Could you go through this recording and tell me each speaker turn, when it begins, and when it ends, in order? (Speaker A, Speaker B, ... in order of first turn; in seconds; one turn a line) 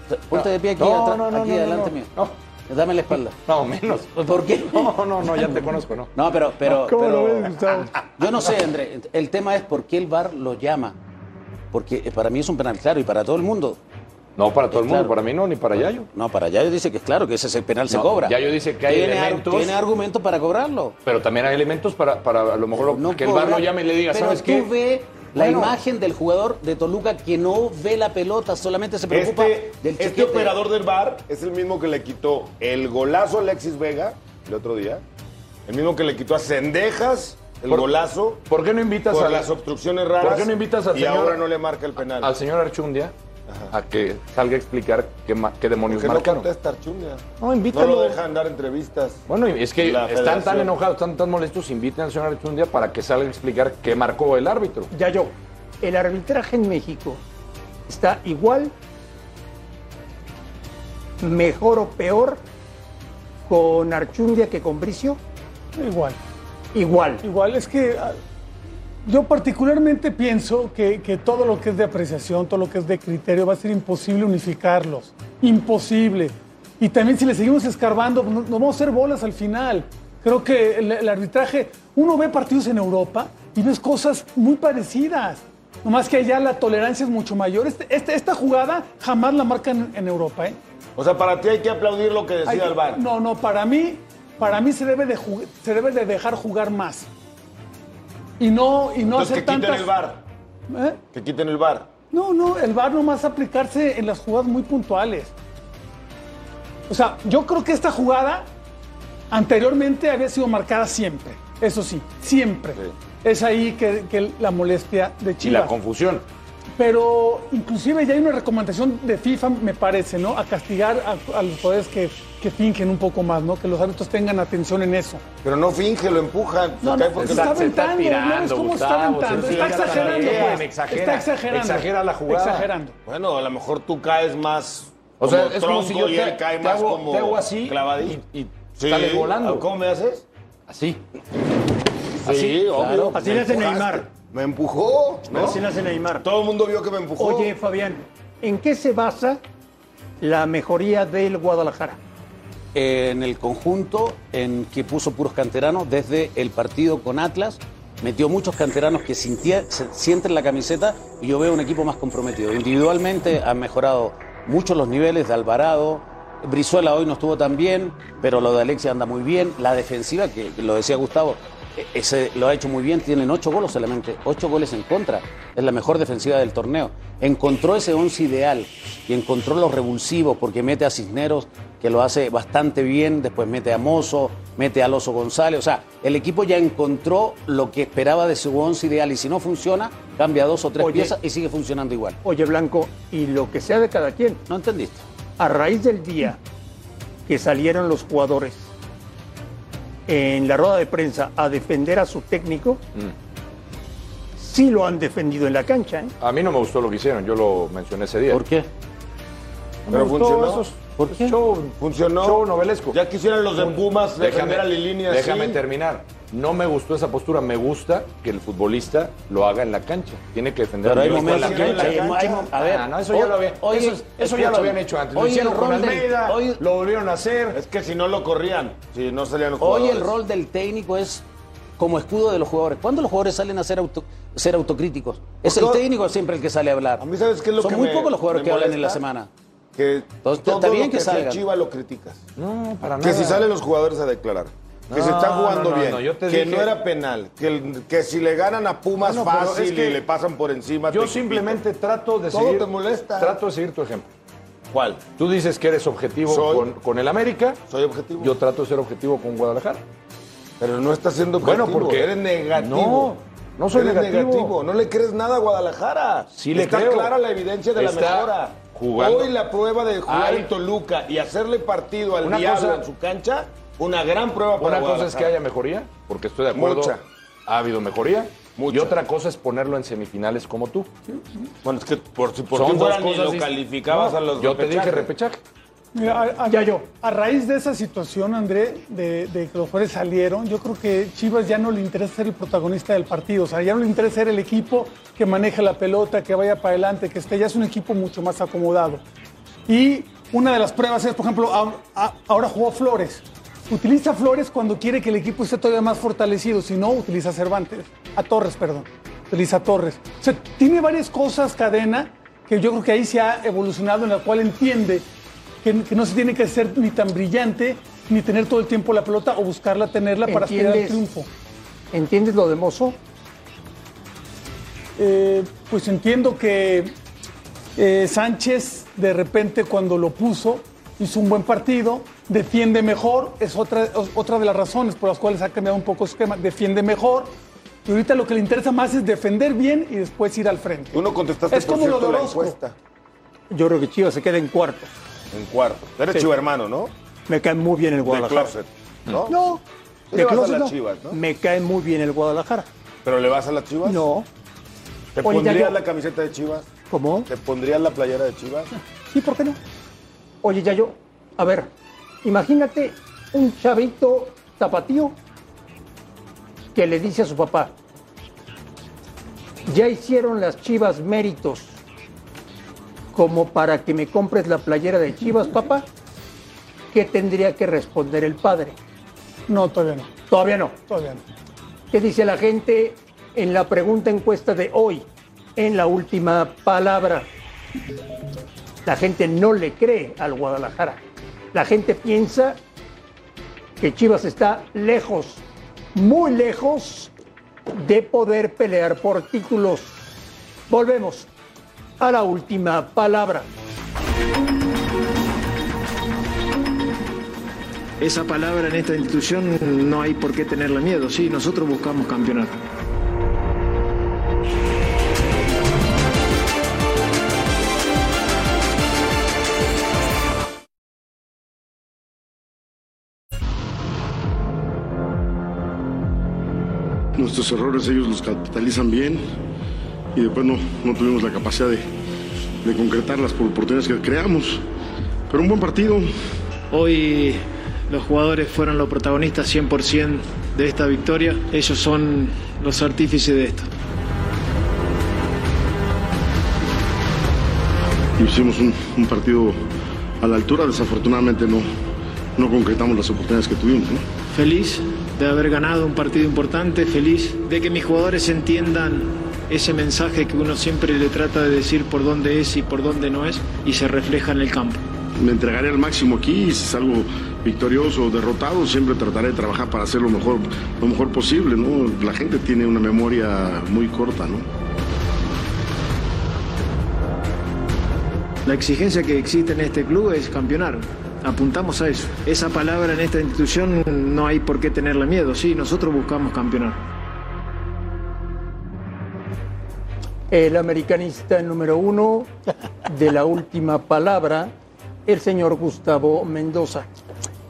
Speaker A: 0.1-2.1
Speaker B: 0.3-2.3
Speaker A: 2.7-3.4
Speaker B: 3.4-4.1
Speaker A: 4.1-5.5
Speaker B: 4.7-6.1
Speaker A: 6.1-11.0
Speaker C: 6.8-7.8
Speaker D: 6.9-7.1
Speaker A: 11.7-13.8
Speaker B: 14.4-16.1
Speaker A: 14.7-15.1
Speaker A: 16.1-21.0
Speaker B: 17.9-19.8
Speaker B: 21.0-24.7
Speaker A: 22.8-30.6
Speaker B: 25.3-25.8
Speaker E: 29.1-35.0
Speaker E: 35.7-38.4
Speaker B: 38.5-39.5
Speaker E: 39.0-42.3
Speaker B: 40.2-41.4
Speaker B: 42.0-43.1
Speaker B: 43.7-46.5
Speaker E: 45.9-49.2
Speaker C: 47.7-48.1
Speaker B: 49.3-54.9
Speaker E: 49.8-50.7
Speaker D: 54.9-57.2
Speaker D: 57.9-58.7
Speaker D: 61.2-62.4
Speaker D: 63.5-65.2
Speaker C: 65.8-66.2
Speaker D: 66.7-67.2
Speaker C: 67.2-68.2
Speaker C: 69.0-90.6
Speaker E: 91.0-93.0
Speaker C: 92.5-97.1
Speaker C: 98.4-99.9
Speaker E: 99.1-100.2
Speaker C: 100.7-101.0
Speaker E: 101.1-101.9
Speaker C: 102.1-105.3
Speaker C: 106.9-108.5
Speaker C: 109.3-115.7
Speaker B: 115.4-116.2
Speaker C: 116.8-125.2
Speaker E: 125.4-127.8
Speaker C: 126.8-132.9
Speaker B: 127.2-132.7
Speaker E: 129.3-130.6
Speaker E: 133.1-138.2
Speaker B: 135.2-139.7
Speaker E: 138.8-140.2
Speaker B: 140.7-141.0
Speaker E: 142.2-145.6
Speaker A: 142.2-143.2
Speaker D: 143.1-144.1
Speaker D: 145.3-146.2
Speaker E: 146.2-147.5
Speaker D: 147.2-149.4
Speaker D: 150.2-152.0
Speaker A: 152.7-192.2
Speaker D: 190.8-191.1
Speaker D: 192.2-194.4
Speaker A: 194.5-195.0
Speaker D: 195.4-196.4
Speaker D: 197.3-198.7
Speaker D: 200.1-202.8
Speaker D: 204.4-206.1
Speaker B: 206.2-208.4
Speaker A: 208.3-208.7
Speaker B: 209.9-213.0
Speaker E: 209.9-210.6
Speaker A: 211.0-211.3
Speaker E: 211.8-215.6
Speaker B: 213.5-227.6
Speaker A: 220.8-226.6
Speaker E: 220.9-222.5
Speaker E: 227.5-230.1
Speaker A: 229.6-231.2
Speaker A: 231.8-237.0
Speaker E: 235.4-235.8
Speaker E: 237.0-239.0
Speaker A: 237.6-239.3
Speaker E: 239.8-242.2
Speaker A: 240.2-241.4
Speaker B: 242.4-243.5
Speaker E: 243.0-251.6
Speaker B: 244.9-246.7
Speaker B: 249.0-250.0
Speaker B: 250.9-254.1
Speaker E: 252.3-253.4
Speaker E: 254.7-255.1
Speaker B: 255.2-257.6
Speaker E: 256.2-256.7
Speaker E: 257.7-258.3
Speaker B: 258.2-259.8
Speaker E: 260.6-263.1
Speaker B: 261.4-264.5
Speaker E: 263.7-275.4
Speaker B: 266.3-267.1
Speaker B: 267.7-269.3
Speaker B: 270.0-270.5
Speaker B: 272.2-272.8
Speaker B: 274.6-276.9
Speaker E: 276.5-277.0
Speaker B: 277.5-280.9
Speaker E: 278.6-279.0
Speaker E: 281.6-285.1
Speaker B: 282.5-285.4
Speaker C: 285.9-299.0
Speaker D: 286.5-286.8
Speaker C: 299.7-315.1
Speaker C: 315.6-321.3
Speaker D: 320.2-321.0
Speaker D: 321.9-323.0
Speaker C: 324.9-326.9
Speaker C: 327.8-342.6
Speaker E: 340.9-342.7
Speaker D: 343.5-344.9
Speaker E: 345.3-346.9
Speaker D: 347.3-348.5
Speaker E: 348.0-349.4
Speaker D: 349.3-349.6
Speaker E: 350.1-351.2
Speaker D: 350.1-352.7
Speaker E: 353.0-354.1
Speaker D: 353.8-354.3
Speaker E: 355.1-356.7
Speaker D: 355.2-355.8
Speaker D: 356.9-357.3
Speaker E: 357.3-358.7
Speaker D: 359.1-359.6
Speaker D: 360.4-361.7
Speaker D: 362.2-365.1
Speaker D: 366.7-367.7
Speaker D: 369.6-371.8
Speaker D: 373.1-375.9
Speaker D: 376.9-378.8
Speaker C: 379.5-380.1
Speaker D: 380.3-380.8
Speaker C: 380.8-381.2
Speaker D: 381.9-385.1
Speaker D: 385.6-387.3
Speaker D: 388.8-391.0
Speaker D: 391.5-392.6
Speaker D: 393.8-395.4
Speaker D: 395.9-397.1
Speaker D: 397.7-400.0
Speaker D: 400.7-401.3
Speaker D: 402.0-403.5
Speaker F: 408.0-412.6
Speaker G: 427.1-429.3
Speaker G: 430.1-431.9
Speaker G: 432.6-434.6
Speaker G: 435.3-436.1
Speaker F: 436.7-443.7
Speaker G: 448.2-449.6
Speaker G: 450.2-451.7
Speaker G: 452.4-454.1
Speaker F: 454.3-464.8
Speaker G: 465.2-474.4
Speaker F: 478.4-486.9
Speaker D: 490.3-492.3
Speaker D: 492.9-494.5
Speaker D: 495.1-496.9